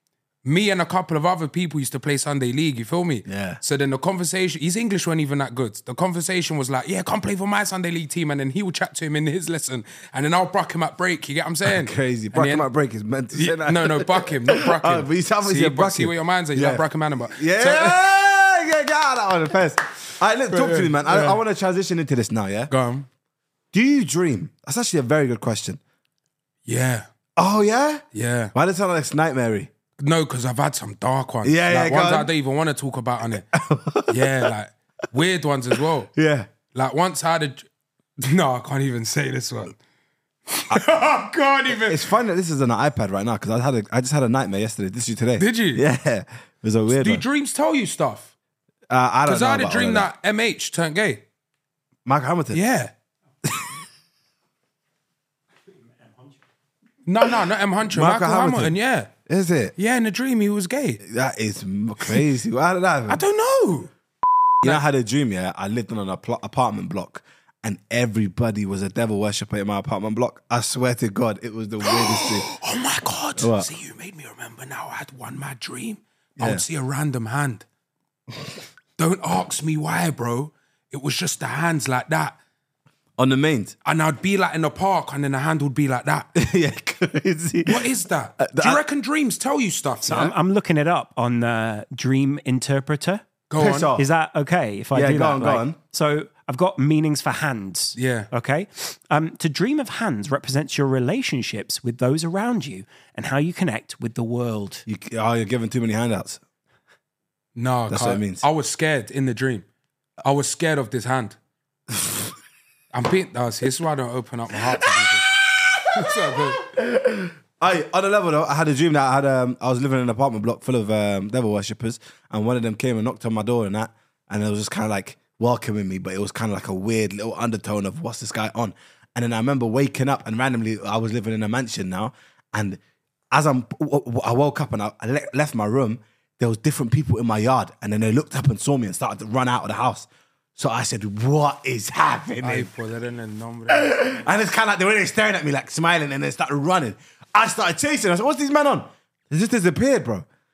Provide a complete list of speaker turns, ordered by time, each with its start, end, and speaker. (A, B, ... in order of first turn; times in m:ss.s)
0:00.4-0:12.7 A
0:03.3-0:03.6 B
0:11.6-0:22.7 B
0:13.3-0:18.1 A
0:20.5-0:21.4 A
0:22.7-0:23.1 A
0:23.7-0:25.8 B
0:26.6-0:27.0 A
0:27.4-0:29.7 B
0:28.1-0:28.5 A
0:30.0-0:33.4 A
0:31.4-0:32.3 B
0:33.3-0:34.5 B
0:34.1-0:36.1 A
0:36.1-0:36.5 B
0:36.7-0:37.6 A
0:38.2-0:39.8 A
0:40.5-0:42.1 A
0:41.7-0:47.2 B
0:45.4-0:45.8 A
0:46.9-0:48.3 A
0:48.9-0:50.1 B
0:49.2-0:51.2 A
0:52.0-0:52.6 B
0:52.5-0:52.9 A
0:53.4-0:53.8 B
0:57.0-0:59.1 A
0:57.9-0:58.7 B
0:59.2-0:59.7 B
0:59.8-1:01.0 A
1:01.0-1:03.2 B
1:03.1-1:03.9 A
1:04.6-1:12.5 B
1:11.8-1:17.6 A
1:13.4-1:13.7 B
1:16.4-1:16.6 B
1:19.0-1:22.4 A
1:23.2-1:23.7 B
1:23.8-1:26.3 A
1:26.3-1:28.8 B
1:27.6-1:30.3 A
1:30.0-1:33.2 C
1:33.5-1:33.9 A
1:33.6-1:34.1 B
1:34.0-1:44.8 C
1:34.9-1:35.8 B
1:38.0-1:38.3 A
1:44.9-1:46.4 B
1:47.6-1:49.6 A
1:47.9-1:48.4 B
1:50.2-1:51.4 A
1:51.9-1:52.3 B
1:52.9-1:56.7 A
1:55.7-2:12.8 B
2:13.3-2:22.7 B
2:22.4-2:24.2 A
2:23.7-2:30.2 B